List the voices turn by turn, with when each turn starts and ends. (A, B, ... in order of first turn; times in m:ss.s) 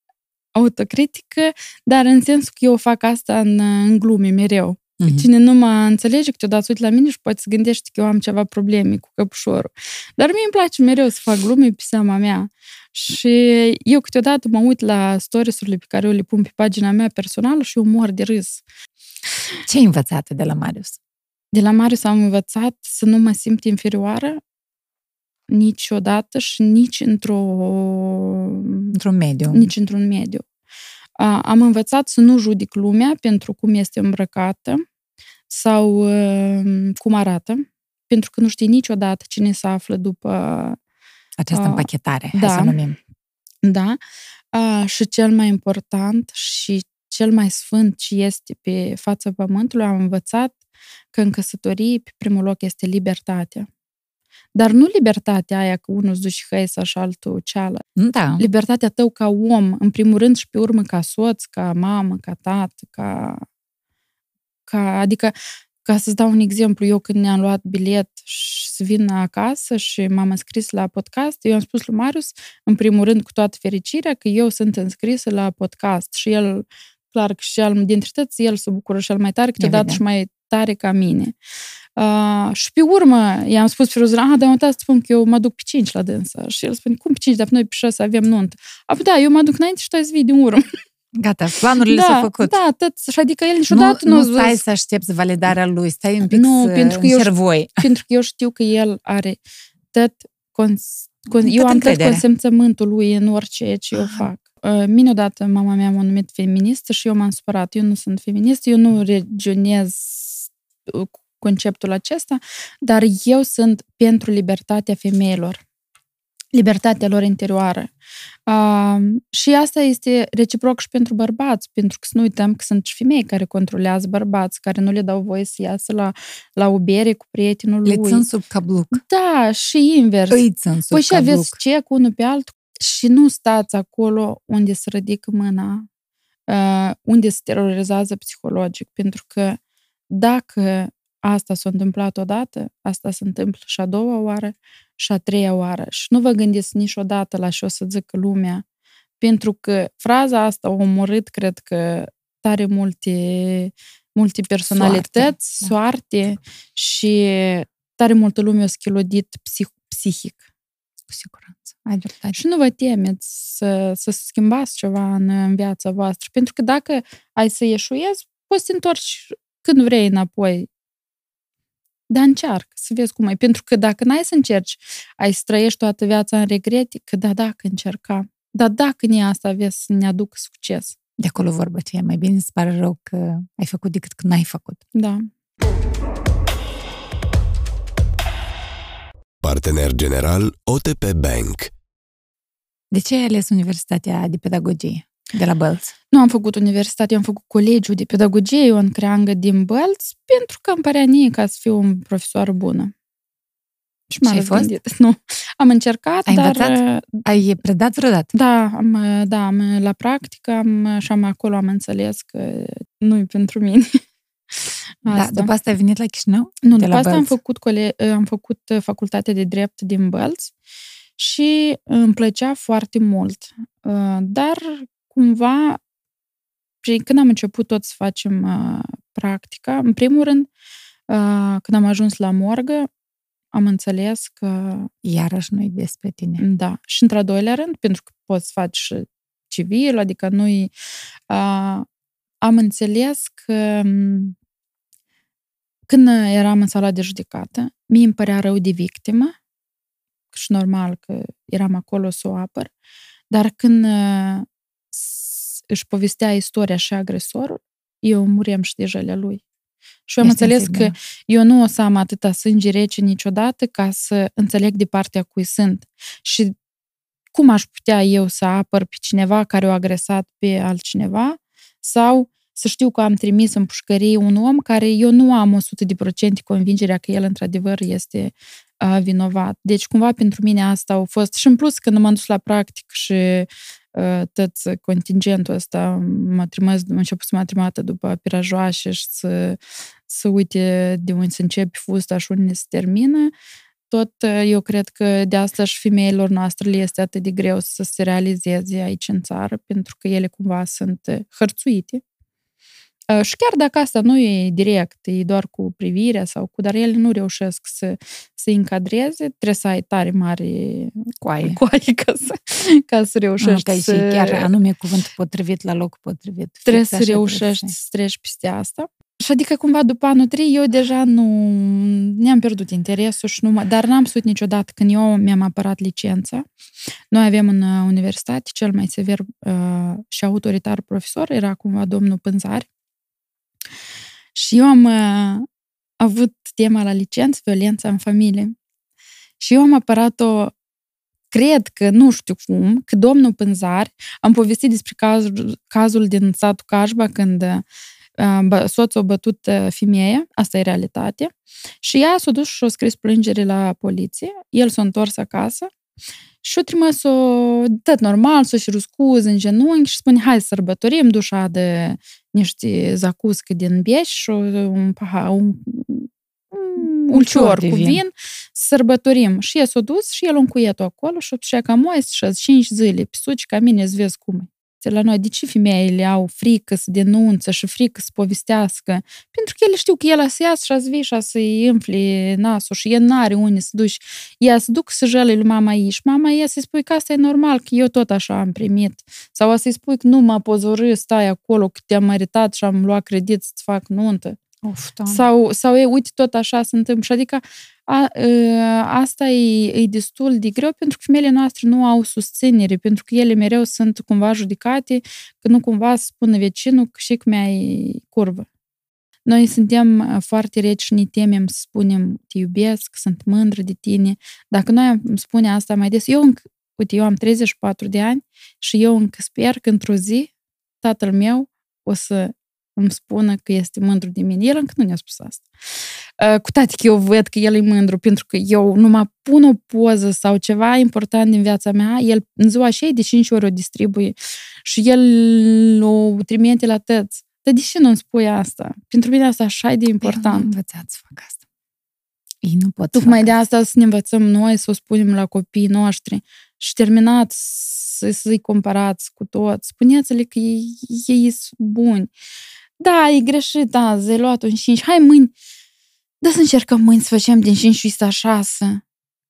0:00.5-0:18.6 A
0:05.0-0:05.3 B
0:19.6-0:21.0 B
0:21.5-0:24.4 A
0:25.5-0:28.9 A
0:28.9-0:29.7 B
0:29.5-0:30.4 A
0:31.2-0:34.8 A
0:35.5-0:40.8 A
0:41.4-0:43.0 B
0:41.5-0:42.8 A
0:43.6-0:44.0 A
0:44.5-0:50.6 A
0:51.1-0:53.7 A
0:54.5-0:57.8 A
0:58.0-0:58.4 B
0:58.4-1:03.4 A
1:04.7-1:21.3 A
1:19.6-1:20.0 B
1:22.0-1:30.6 A
1:31.1-1:32.5 B
1:31.9-1:34.6 A
1:33.7-1:37.8 B
1:36.2-1:39.4 A
1:39.9-1:55.6 A
1:41.4-1:42.2 B
1:43.9-1:44.2 B
1:56.5-1:57.9 A
1:58.5-2:08.2 A
2:07.8-2:09.0 B
2:08.9-2:15.9 A
2:10.3-2:11.6 B
2:16.5-2:19.6 A
2:20.1-2:28.6 A
2:29.2-2:40.4 A
2:34.6-2:35.7 B
2:41.1-2:42.4 B
2:42.3-2:50.7 A
2:52.1-3:00.9 A
3:01.2-3:04.8 B
3:04.9-3:05.2 A
3:09.4-3:11.7 C
3:12.9-3:15.9 B
3:16.1-3:22.9 A
3:24.1-3:27.2 A
3:24.2-3:24.7 B
3:26.3-3:28.3 B
3:28.3-3:34.0 A
3:34.5-3:35.5 A
3:35.0-3:37.3 B
3:36.6-3:40.5 A
3:41.2-3:45.8 A
3:46.8-3:50.5 A
3:51.1-3:52.9 A
3:53.5-3:54.9 A
3:55.0-3:56.4 B
3:56.4-4:00.7 A
4:01.3-4:01.9 A
4:02.4-4:04.4 A
4:05.9-4:09.3 A
4:10.3-4:12.7 A
4:13.3-4:19.4 A
4:20.1-4:26.5 A
4:20.2-4:20.9 B
4:27.3-4:53.3 A
4:53.9-5:02.0 A
5:03.1-5:14.5 A
5:11.2-5:11.6 B
5:13.4-5:17.8 B
5:16.7-5:26.5 A
5:27.1-5:32.7 A
5:34.3-5:35.5 A
5:36.0-5:38.5 A
5:39.4-5:40.5 A
5:41.3-5:47.6 A
5:48.2-5:55.7 A
5:56.4-6:34.4 A
6:07.1-6:08.0 B
6:34.6-6:35.2 B
6:35.1-6:48.5 A
6:49.2-7:00.3 A
7:00.8-7:05.4 A
7:06.2-7:20.5 A
7:20.0-7:21.4 B
7:22.4-7:23.4 B
7:22.9-7:32.1 A
7:32.8-7:35.3 A
7:36.2-7:38.8 A